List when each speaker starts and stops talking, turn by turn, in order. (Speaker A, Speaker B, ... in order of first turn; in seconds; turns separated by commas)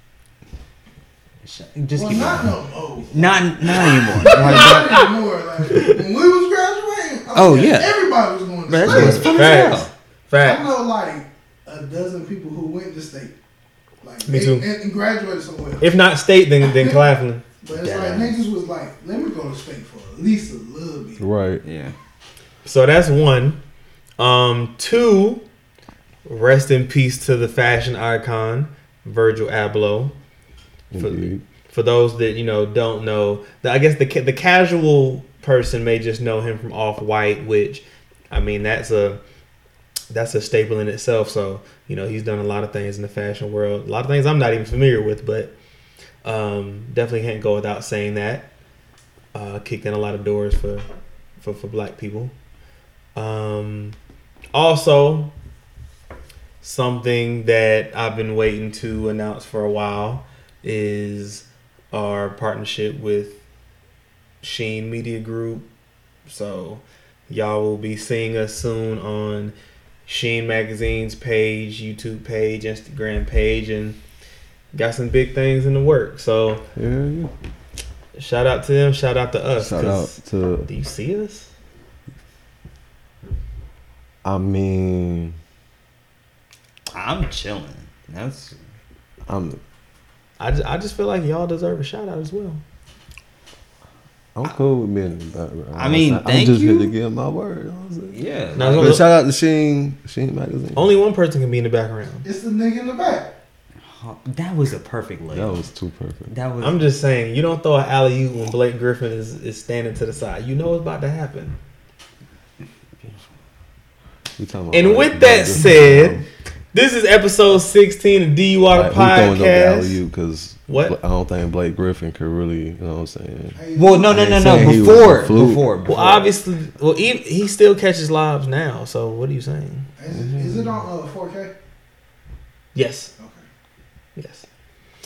Speaker A: 1.4-2.6, Speaker B: 1.9-9.7, Speaker A: 3.1-5.0, Speaker C: 4.2-5.0, Speaker C: 5.7-6.0, Speaker A: 7.3-8.1, Speaker A: 8.7-9.9, Speaker D: 8.9-9.2, Speaker C: 8.9-10.7, Speaker B: 10.4-13.3, Speaker B: 14.0-15.9, Speaker C: 14.2-14.7, Speaker C: 15.8-17.4, Speaker B: 16.6-17.0, Speaker B: 17.6-21.2, Speaker A: 17.7-18.4, Speaker D: 21.2-21.6, Speaker A: 21.6-21.9, Speaker C: 22.6-23.6, Speaker C: 24.2-25.4, Speaker C: 26.2-30.1, Speaker D: 30.9-31.4, Speaker C: 30.9-39.2, Speaker C: 40.1-45.5, Speaker C: 46.2-48.5, Speaker C: 49.3-50.9, Speaker C: 51.4-52.3, Speaker C: 53.1-54.0, Speaker C: 54.5-55.3, Speaker C: 56.6-63.4, Speaker C: 64.4-65.7, Speaker C: 66.2-69.5, Speaker C: 70.1-74.0, Speaker C: 74.7-76.6, Speaker D: 76.8-77.3, Speaker C: 78.2-80.2, Speaker D: 79.6-80.7, Speaker C: 80.7-81.5, Speaker D: 84.2-85.4, Speaker A: 86.9-88.6, Speaker D: 89.3-89.6, Speaker C: 90.4-92.6, Speaker D: 94.3-100.9, Speaker A: 95.7-96.9, Speaker A: 98.1-99.1, Speaker C: 98.6-99.1, Speaker C: 100.8-102.3, Speaker B: 102.2-103.4, Speaker A: 103.8-105.6, Speaker D: 105.3-106.3, Speaker A: 106.3-106.8, Speaker C: 106.6-111.6, Speaker D: 114.4-116.2, Speaker C: 114.7-116.2, Speaker C: 116.7-120.0, Speaker D: 118.7-123.6, Speaker C: 120.7-121.0, Speaker B: 123.5-124.7, Speaker A: 123.8-126.2, Speaker D: 124.1-125.7, Speaker C: 125.8-129.9, Speaker B: 130.0-131.5, Speaker D: 130.1-130.8, Speaker C: 132.8-133.1, Speaker B: 133.2-133.4, Speaker C: 134.2-134.4